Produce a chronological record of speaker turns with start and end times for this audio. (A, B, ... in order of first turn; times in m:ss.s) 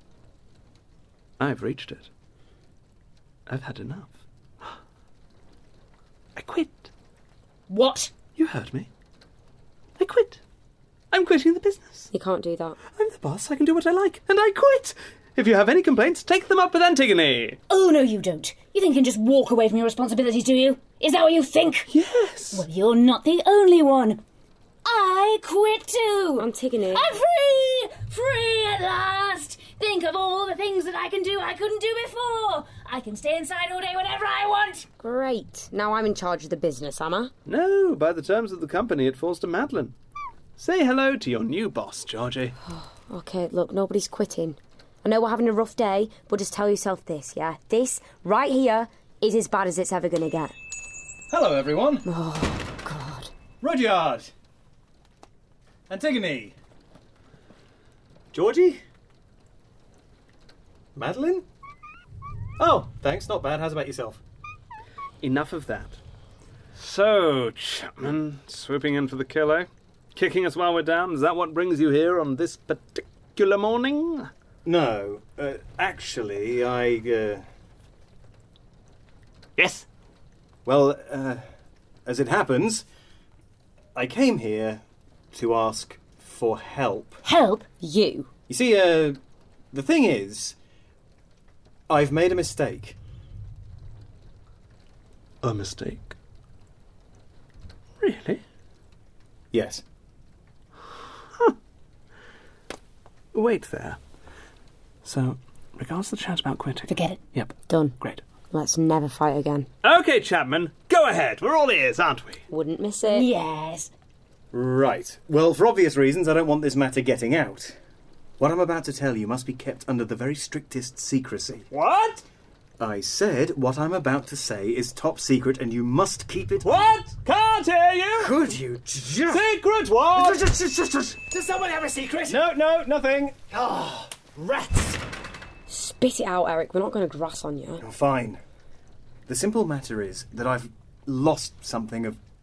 0:01.4-0:02.1 A
0:03.5-0:04.7 A
0:06.4-0:06.9 A
0:07.7-0:08.1 B
0:08.4-0:08.9 A
0:10.0-0:10.4 A
0:11.1-0:12.1 A
0:12.1-0:12.8 C
0:13.0-0:17.6 A
0:17.7-0:21.9 B
0:21.9-0:22.6 A
0:22.5-0:24.2 B
0:24.8-0:34.9 B
0:26.4-0:27.1 C
0:35.0-0:37.3 C
0:37.5-0:39.9 A
0:40.6-0:42.6 A
0:42.6-0:50.6 C
0:51.3-0:52.1 D
0:52.0-0:53.3 C
0:53.6-0:54.3 D
0:55.9-0:56.6 D
0:58.3-0:58.8 D
1:01.0-1:01.4 D
1:02.6-1:04.2 D
1:05.2-1:06.0 A
1:06.8-1:14.3 A
1:14.6-1:17.4 D
1:19.6-1:19.9 A
1:20.7-1:21.4 D
1:22.1-1:22.8 D
1:24.0-1:27.2 D
1:27.2-1:27.7 B
1:27.8-1:28.3 C
1:28.5-1:29.2 D
1:29.7-1:30.6 D
1:31.9-1:33.0 D
1:35.4-1:36.2 A
1:38.0-1:38.4 A
1:39.5-1:39.8 D
1:43.3-1:44.0 A
1:45.0-1:48.2 A
1:46.9-1:47.2 B
1:47.7-1:48.0 C
1:48.5-1:49.7 C
1:49.8-1:52.4 A
1:52.5-1:53.3 C
1:53.1-1:53.9 B
1:54.5-1:57.8 D
1:58.4-2:01.7 D
2:01.7-2:02.2 A
2:02.8-2:06.8 D
2:06.6-2:08.4 A
2:08.2-2:09.5 D
2:09.3-2:10.5 A
2:10.2-2:11.2 D
2:11.2-2:12.4 E
2:12.3-2:13.5 D
2:13.5-2:15.0 E
2:15.7-2:17.8 C
2:17.8-2:18.4 D
2:19.3-2:22.2 D